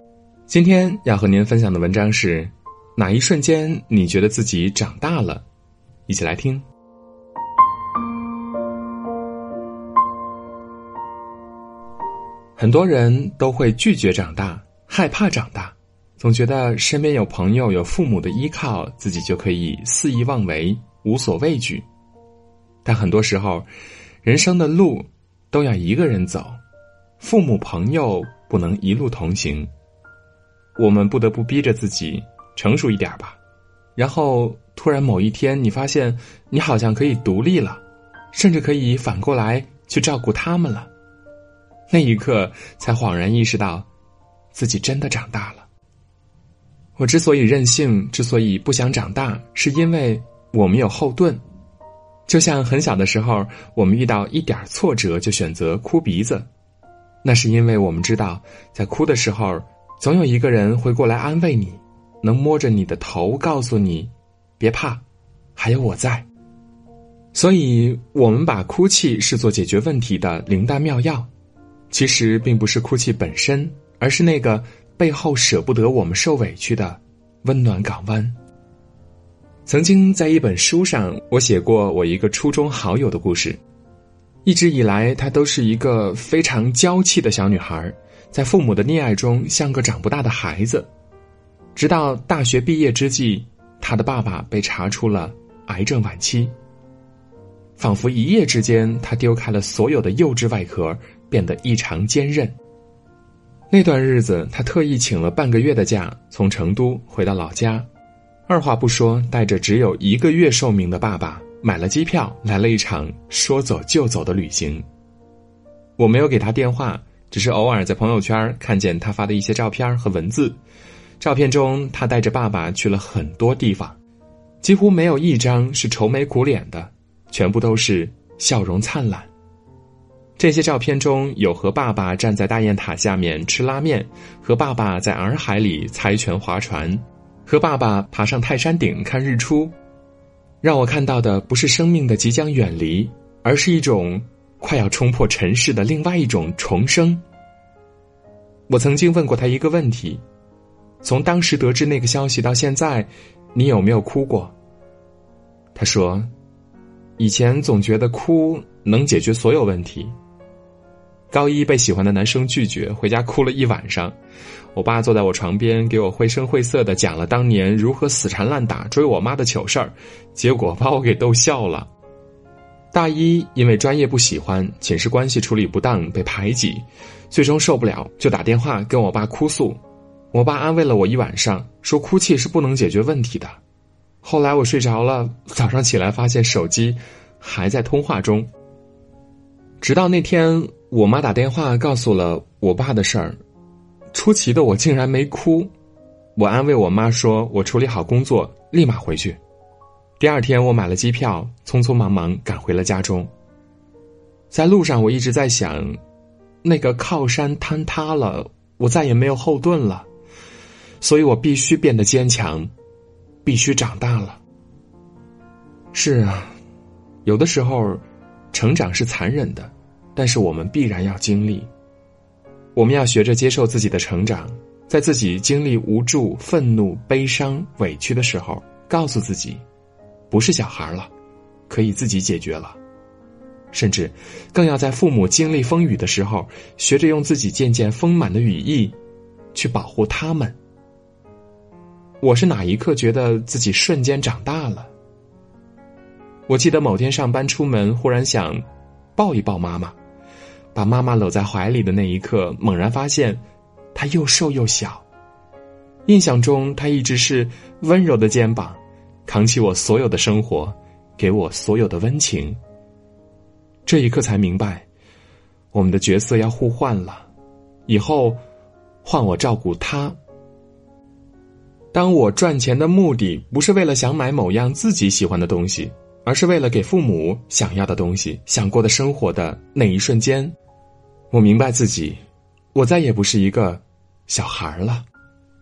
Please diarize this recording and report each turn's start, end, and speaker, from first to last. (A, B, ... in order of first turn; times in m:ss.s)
0:00.5-0:05.4 A
0:06.1-0:06.6 A
0:12.6-0:21.8 A
0:22.8-0:23.7 A
0:24.2-0:26.6 A
0:27.2-0:29.7 A
0:30.8-0:33.4 A
0:34.0-0:37.8 A
0:38.3-0:40.9 A
0:41.9-0:43.9 A
0:44.5-0:45.7 A
0:47.0-0:51.4 A
0:52.3-0:56.5 A
0:57.2-1:05.0 A
1:05.6-1:06.3 A
1:07.3-1:11.3 A
1:11.9-1:18.4 A
1:19.6-1:23.6 A
1:24.4-1:30.9 A
1:31.7-1:36.5 A
1:37.8-1:42.5 A
1:43.7-1:47.8 A
1:48.5-1:54.8 A
1:56.0-2:00.6 A
2:01.2-2:04.0 A
2:04.6-2:09.3 A
2:10.4-2:19.7 A
2:20.6-2:27.2 A
2:28.7-2:30.2 A
2:31.0-2:34.5 A
2:35.7-2:36.3 A
2:37.2-2:40.1 A
2:41.3-2:44.1 A
2:44.7-2:51.9 A
2:52.9-2:59.8 A
3:00.3-3:03.6 A
3:04.2-3:08.5 A
3:09.8-3:13.4 A
3:14.1-3:15.7 A
3:16.4-3:19.4 A
3:20.2-3:23.3 A
3:24.5-3:26.0 A
3:26.6-3:30.1 A
3:31.0-3:32.7 A
3:33.4-3:34.4 A
3:35.9-3:36.6 A
3:37.2-3:41.7 A
3:42.7-3:49.6 A
3:50.3-3:51.1 A
3:51.7-3:52.8 A
3:53.7-3:59.0 A
3:59.5-4:00.6 A
4:02.2-4:04.9 A
4:06.5-4:08.6 A
4:09.2-4:09.9 A
4:10.7-4:13.4 A
4:13.9-4:15.0 A
4:16.0-4:22.6 A
4:23.8-4:24.9 A
4:25.7-4:27.3 A
4:27.9-4:28.4 A
4:29.0-4:30.2 A
4:31.9-4:40.5 A
4:41.3-4:42.2 A
4:42.7-4:45.0 A